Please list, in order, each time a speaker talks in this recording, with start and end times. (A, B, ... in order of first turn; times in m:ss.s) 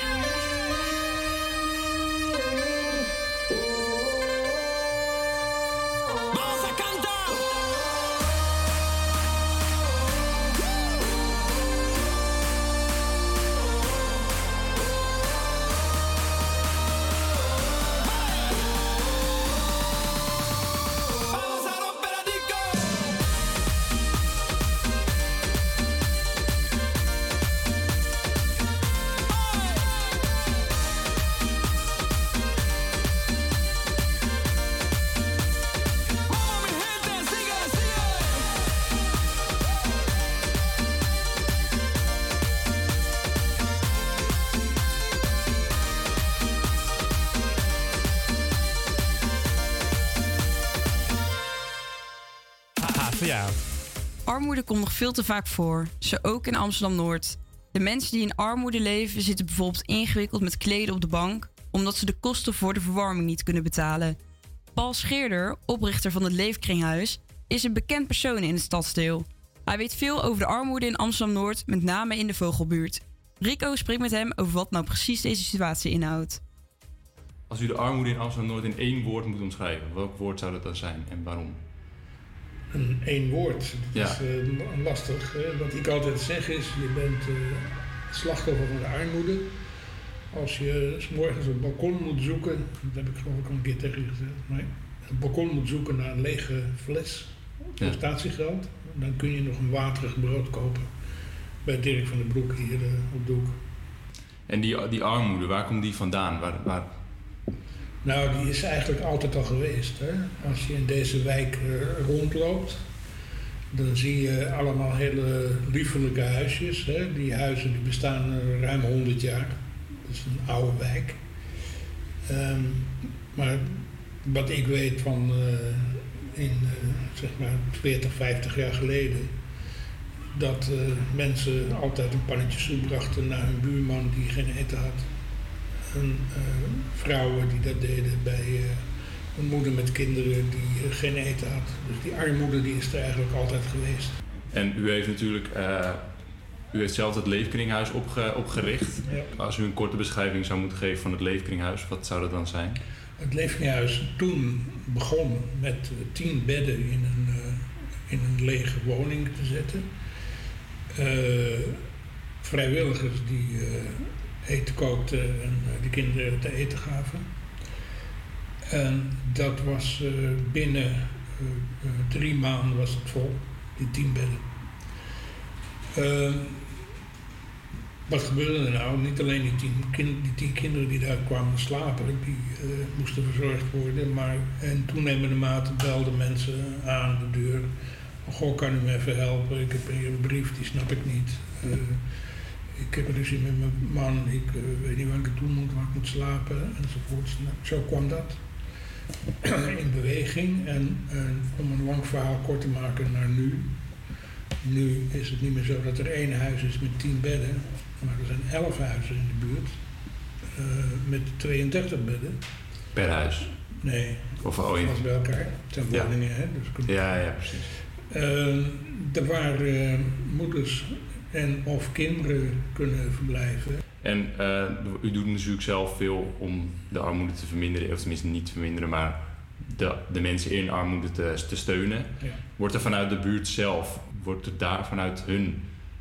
0:54.3-1:04.2 A
1:04.8-1:16.4 A
1:17.5-1:21.6 B
1:22.7-1:29.5 C
1:23.9-1:24.2 B
1:30.3-1:40.9 C
1:41.6-1:43.6 C
1:44.5-1:46.9 B
1:48.0-1:52.8 C
1:53.7-2:01.2 C
2:02.3-2:09.4 C
2:10.4-2:15.1 C
2:15.9-2:24.1 C
2:24.5-2:26.0 B
2:26.7-2:32.8 B
2:29.0-2:29.3 C
2:33.2-2:39.9 C
2:41.0-2:41.8 C
2:42.4-2:47.3 C
2:48.7-2:54.5 C
2:56.0-2:56.7 C
2:58.1-3:07.7 C
3:08.2-3:12.0 C
3:12.8-3:18.4 C
3:19.4-3:23.8 C
3:24.6-3:29.8 C
3:30.6-3:32.4 C
3:33.0-3:33.5 B
3:33.8-3:37.1 C
3:34.4-3:35.0 B
3:35.9-3:36.2 B
3:36.8-3:37.7 B
3:38.1-3:43.8 C
3:44.0-3:55.7 B